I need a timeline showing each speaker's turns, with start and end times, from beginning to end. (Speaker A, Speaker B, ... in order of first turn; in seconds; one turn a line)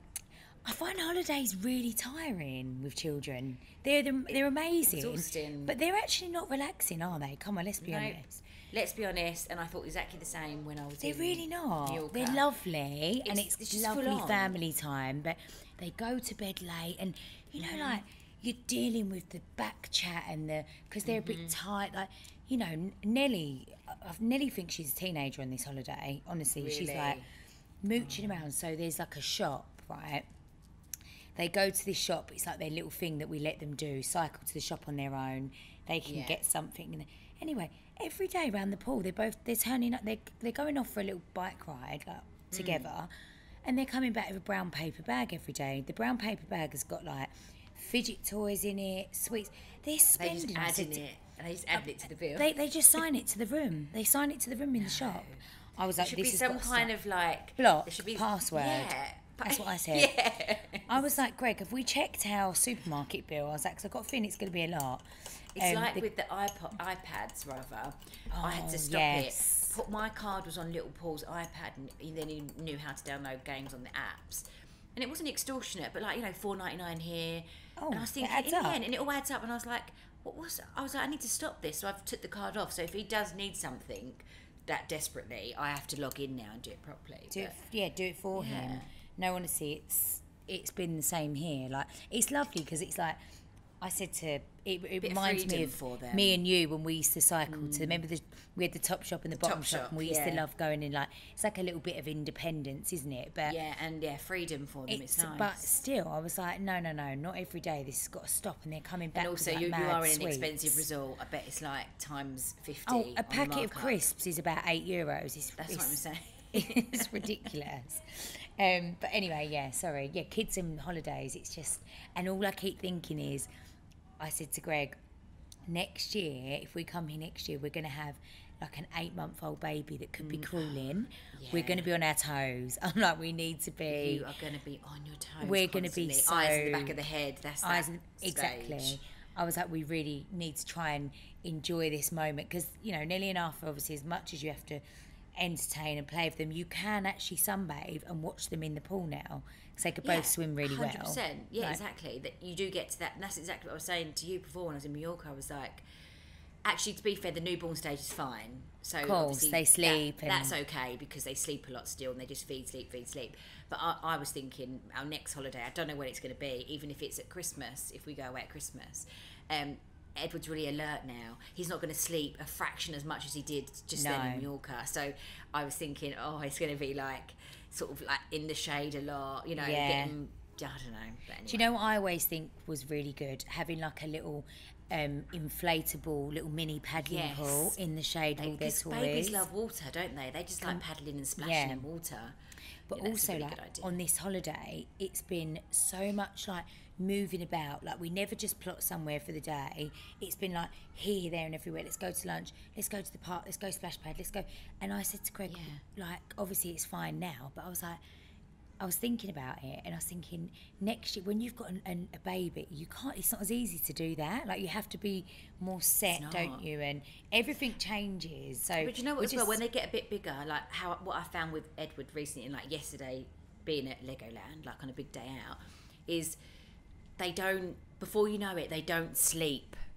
Speaker A: 0.7-8.4
Speaker B: 4.9-5.8
Speaker B: 7.8-12.4
Speaker A: 11.0-27.2
Speaker B: 13.2-14.6
Speaker B: 17.6-18.0
Speaker B: 21.1-21.6
Speaker B: 26.6-27.3
Speaker A: 27.8-30.3
Speaker B: 28.0-28.4
Speaker A: 31.4-43.1
Speaker B: 36.0-36.4
Speaker B: 42.5-42.9
Speaker A: 43.6-51.0
Speaker B: 50.2-52.5
Speaker A: 51.8-56.9
Speaker B: 54.8-55.4
Speaker B: 56.0-61.0
Speaker A: 57.6-60.1
Speaker A: 60.9-66.1
Speaker B: 65.5-87.5
Speaker A: 68.3-69.8
Speaker A: 77.8-78.8
Speaker A: 87.3-93.2
Speaker B: 88.3-88.9
Speaker A: 93.8-103.6
Speaker B: 95.0-96.4
Speaker B: 97.5-98.0
Speaker B: 99.3-100.5
Speaker B: 103.5-105.6
Speaker A: 104.9-110.8
Speaker B: 109.1-114.0
Speaker A: 112.9-116.0
Speaker B: 115.6-117.4
Speaker A: 116.5-123.5
Speaker A: 124.2-125.0
Speaker A: 125.7-134.2
Speaker B: 130.2-131.9
Speaker B: 133.9-139.0
Speaker A: 135.4-137.0
Speaker A: 137.6-144.8
Speaker A: 145.4-151.8
Speaker B: 150.0-155.8
Speaker B: 156.7-181.7
Speaker A: 159.0-160.6
Speaker A: 174.0-174.5
Speaker A: 179.6-180.2
Speaker A: 181.5-189.5
Speaker B: 187.0-187.8
Speaker B: 188.4-192.4
Speaker A: 191.4-191.9
Speaker B: 192.9-194.0
Speaker A: 192.9-208.0
Speaker B: 205.5-205.8
Speaker A: 208.8-219.6
Speaker B: 216.1-216.6
Speaker B: 218.8-226.4
Speaker B: 227.2-229.8